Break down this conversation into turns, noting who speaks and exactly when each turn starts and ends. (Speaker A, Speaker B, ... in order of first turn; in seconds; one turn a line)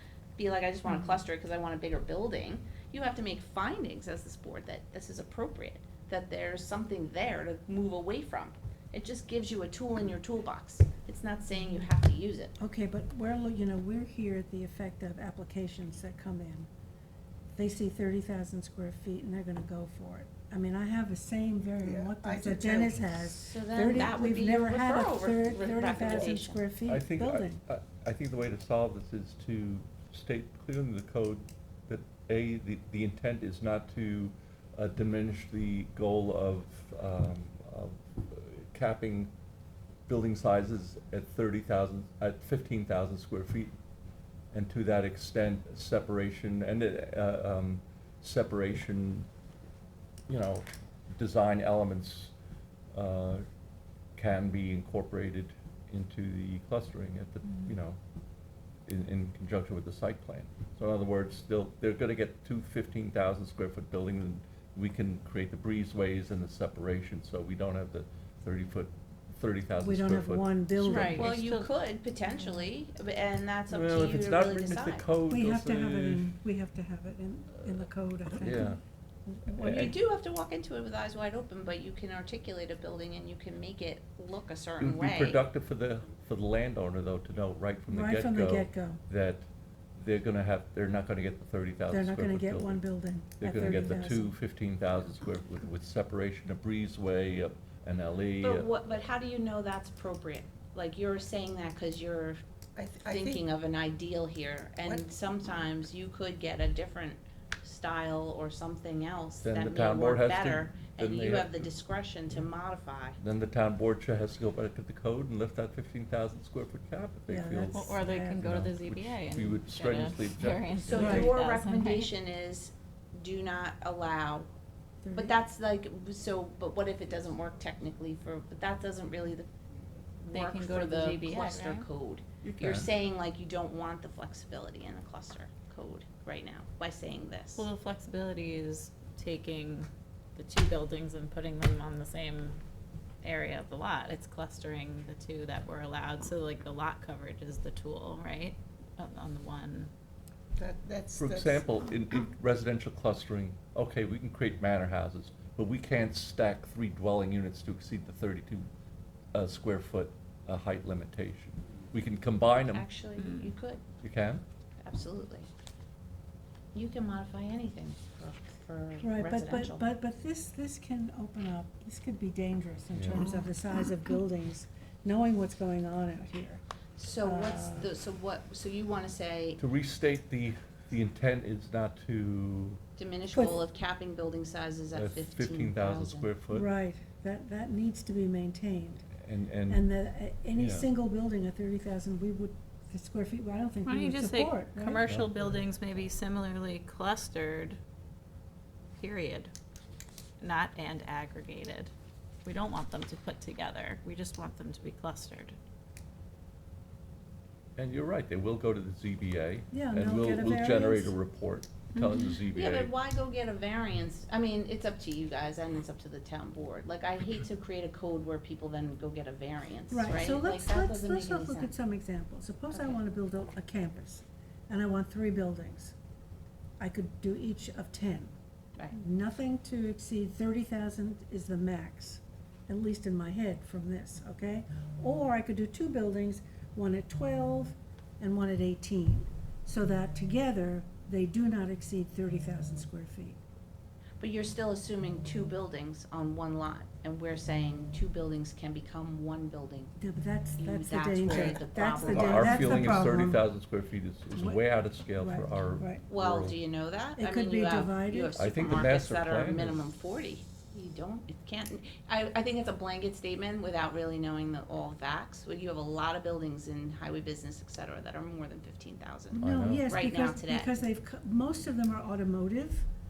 Speaker A: 0.4-12.5
Speaker B: 0.9-1.1
Speaker B: 12.6-16.7
Speaker B: 17.5-27.6
Speaker C: 21.8-23.2
Speaker A: 23.3-26.6
Speaker D: 26.9-39.3
Speaker D: 40.1-43.7
Speaker D: 44.5-49.3
Speaker D: 50.3-52.3
Speaker D: 52.9-53.4
Speaker D: 54.1-58.0
Speaker E: 57.5-57.7
Speaker D: 58.9-70.5
Speaker B: 69.8-71.3
Speaker E: 70.8-71.7
Speaker A: 70.9-75.1
Speaker D: 73.7-76.3
Speaker B: 75.3-79.9
Speaker D: 78.3-78.8
Speaker D: 79.5-79.9
Speaker A: 79.6-85.4
Speaker D: 84.8-92.8
Speaker B: 87.9-89.0
Speaker B: 91.9-94.3
Speaker D: 93.4-98.7
Speaker A: 98.4-102.4
Speaker C: 102.8-103.4
Speaker A: 103.0-113.2
Speaker C: 104.8-105.1
Speaker D: 109.4-111.7
Speaker D: 113.2-121.3
Speaker B: 117.3-118.4
Speaker E: 117.7-122.1
Speaker A: 120.8-124.5
Speaker B: 121.0-121.3
Speaker B: 125.0-125.3
Speaker A: 125.1-129.5
Speaker A: 130.2-137.7
Speaker E: 130.3-131.9
Speaker D: 132.4-132.9
Speaker E: 137.6-142.6
Speaker E: 143.2-149.9
Speaker C: 150.6-151.8
Speaker D: 151.2-158.7
Speaker D: 159.3-162.8
Speaker A: 162.7-163.8
Speaker E: 163.2-163.5
Speaker D: 164.0-164.4
Speaker A: 164.8-165.5
Speaker A: 166.7-169.8
Speaker B: 169.0-176.6
Speaker D: 172.9-173.3
Speaker A: 177.0-179.6
Speaker B: 177.2-177.9
Speaker D: 179.6-182.8
Speaker A: 183.0-186.3
Speaker B: 183.3-183.6
Speaker D: 184.9-186.7
Speaker B: 186.5-189.1
Speaker D: 189.2-189.8
Speaker B: 189.7-195.0
Speaker D: 190.6-190.9
Speaker E: 193.8-197.8
Speaker D: 195.0-195.6
Speaker E: 199.0-199.5
Speaker E: 200.4-201.9
Speaker E: 202.4-205.6
Speaker D: 207.8-212.9
Speaker B: 209.7-211.2
Speaker E: 211.9-212.4
Speaker A: 212.5-221.7
Speaker B: 219.9-225.9
Speaker A: 222.7-223.0
Speaker B: 226.8-228.3
Speaker B: 228.9-243.4
Speaker A: 244.2-249.9
Speaker B: 250.0-253.4
Speaker A: 250.6-253.0
Speaker D: 252.0-256.6
Speaker B: 254.3-254.6
Speaker B: 255.2-256.0
Speaker A: 256.1-270.8
Speaker B: 257.2-258.5
Speaker D: 258.4-259.8
Speaker B: 269.3-272.9
Speaker D: 269.4-269.9